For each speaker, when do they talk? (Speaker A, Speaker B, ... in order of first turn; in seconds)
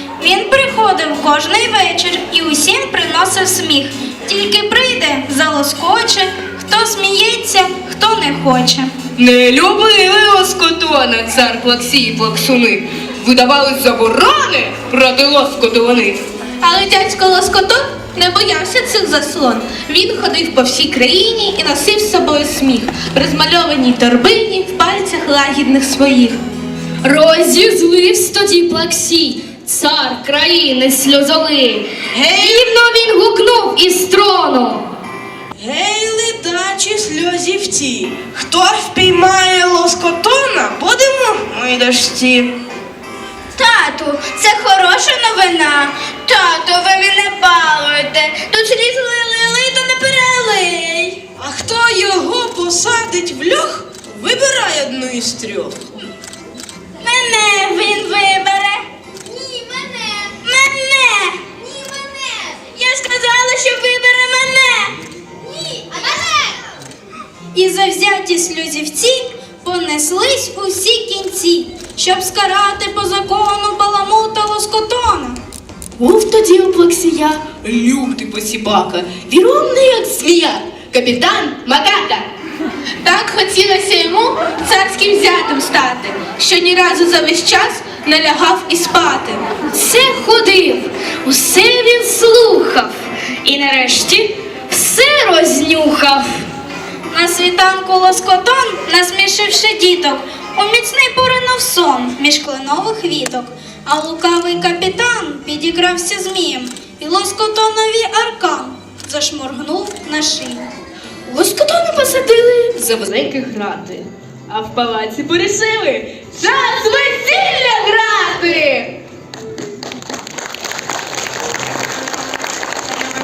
Speaker A: 0.2-8.9, 43.5-51.2, 57.0-58.8, 60.1-65.0, 65.7-66.5, 67.5-75.4, 97.1-110.7
Speaker B: 9.2-16.2, 76.0-82.3, 111.3-118.9
Speaker C: 16.6-26.4, 83.0-89.5
Speaker D: 27.0-34.9, 89.7-96.4
Speaker E: 32.1-32.8, 35.6-41.6, 51.4-55.8